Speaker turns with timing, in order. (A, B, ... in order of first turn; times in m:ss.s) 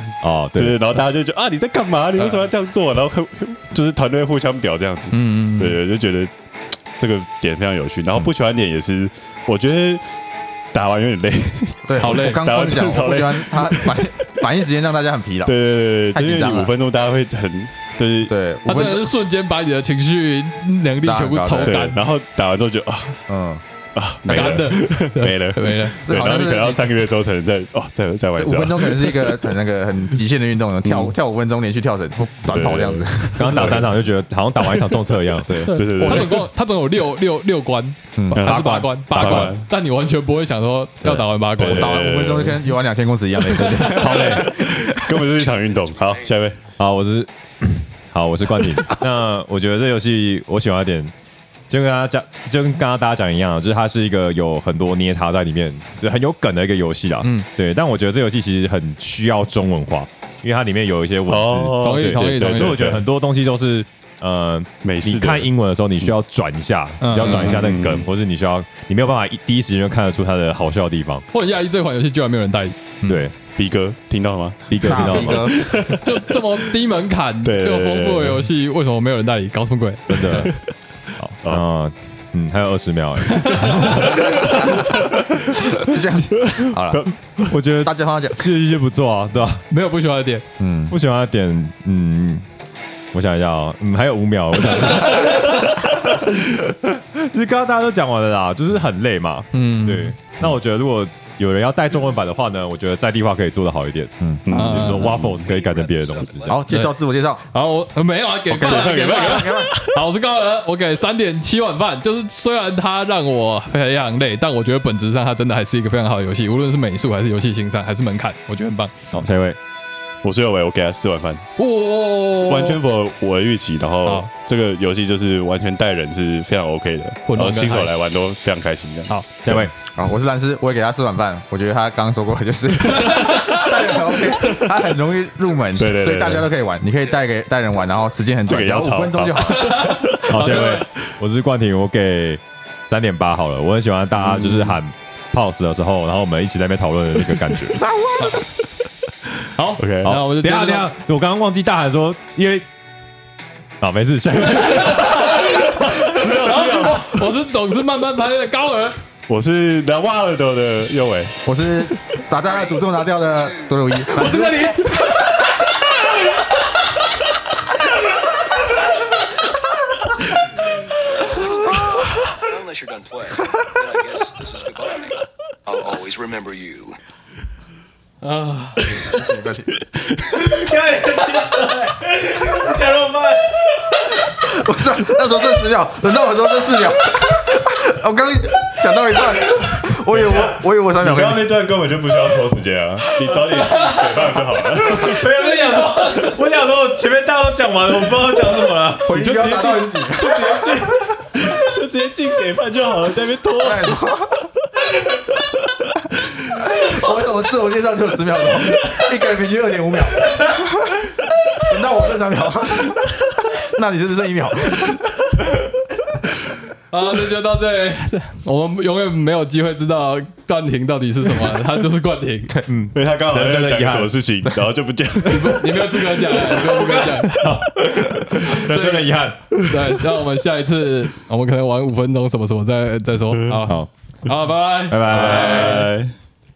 0:00.2-0:00.8 A
0:00.6-0:06.3 B
0:02.2-0:02.4 C
0:05.1-0:05.8 C
0:07.0-0:10.0 B
0:10.7-0:14.1 B
0:11.9-0:15.5 D
0:12.0-0:12.4 C
0:15.4-0:18.3 B
0:16.1-0:16.7 D
0:18.2-0:19.1 D
0:18.6-0:22.0 C
0:21.0-0:21.9 D
0:21.6-0:23.2 B
0:23.3-0:23.6 D
0:23.9-0:29.5 B
0:24.3-0:24.7 D
0:24.3-0:26.0 C
0:26.0-0:26.9 D
0:28.4-0:33.8 D
0:30.8-0:31.1 B
0:32.4-0:33.9 B
0:33.4-0:35.6 A
0:35.4-0:36.4 D
0:35.6-0:42.0 C
0:35.7-0:36.4 B
0:38.2-0:38.4 D
0:38.3-0:39.7 B
0:38.4-0:39.5 A
0:41.6-0:42.7 B
0:41.6-0:45.0 D
0:43.7-0:46.6 B
0:43.8-0:44.5 A
0:45.7-0:46.3 E
0:46.8-0:51.1 A
0:51.7-1:11.2 A
0:57.2-0:57.5 C
1:01.3-1:03.0 B
1:01.8-1:02.9 C
1:04.8-1:06.1 B
1:07.0-1:07.5 C
1:07.2-1:08.1 B
1:11.3-1:13.2 C
1:13.0-1:13.3 A
1:13.6-1:16.6 B
1:14.7-1:15.6 A
1:14.8-1:15.6 D
1:16.0-1:20.5 C
1:17.4-1:18.4 B
1:20.1-1:20.5 A
1:20.2-1:20.6 B
1:21.2-1:24.5 A
1:23.3-1:24.5 C
1:23.6-1:25.1 B
1:24.6-1:25.0 D
1:25.7-1:27.1 D
1:26.4-1:27.4 B
1:27.4-1:29.6 A
1:27.8-1:28.5 D
1:29.7-1:30.4 C
1:30.6-1:30.9 D
1:30.9-1:32.4 A
1:33.1-1:46.6 A
1:39.5-1:40.1 C
1:44.2-1:44.5 D
1:44.4-1:45.5 B
1:44.5-1:45.1 C
1:45.4-1:46.6 E
1:46.5-1:47.4 D
1:47.5-1:58.9 C
1:48.5-1:49.7 D
1:48.5-1:50.0 B
1:59.1-1:59.6 A
2:00.2-2:01.4 B
2:01.6-2:02.8 C
2:02.4-2:09.7 B
2:07.3-2:07.9 C
2:09.4-2:09.7 A
2:09.9-2:19.9 D
2:13.0-2:13.8 C
2:15.7-2:16.5 B
2:18.4-2:20.7 B
2:19.4-2:20.8 C
2:20.3-2:27.8 A
2:24.2-2:24.8 B
2:27.7-2:28.4 D
2:29.4-2:30.9 C
2:29.8-2:30.1 B
2:30.0-2:32.6 A
2:33.8-2:36.5 A
2:34.9-2:35.6 C
2:35.9-2:37.2 B
2:36.2-2:39.0 C
2:39.3-2:41.4 B
2:41.4-2:44.9 D
2:51.0-2:57.0 E
2:58.2-2:58.8 C
2:58.9-2:59.7 D
3:00.2-3:03.1 B
3:00.4-3:01.9 A
3:02.5-3:03.3 A
3:04.2-3:11.5 D
3:10.1-3:10.4 A
3:10.2-3:15.3 B
3:14.8-3:19.2 A
3:19.0-3:21.0 D
3:19.1-3:24.0 B
3:23.6-3:24.5 D
3:26.2-3:35.4 D
3:36.9-3:42.6 C
3:42.6-3:44.2 A
3:42.9-3:46.5 B
3:45.2-3:47.6 C
3:46.3-3:49.6 A
3:48.7-3:49.0 D
3:49.6-3:55.9 C
3:53.3-3:53.6 B
3:54.9-3:55.9 A
3:55.1-3:56.1 B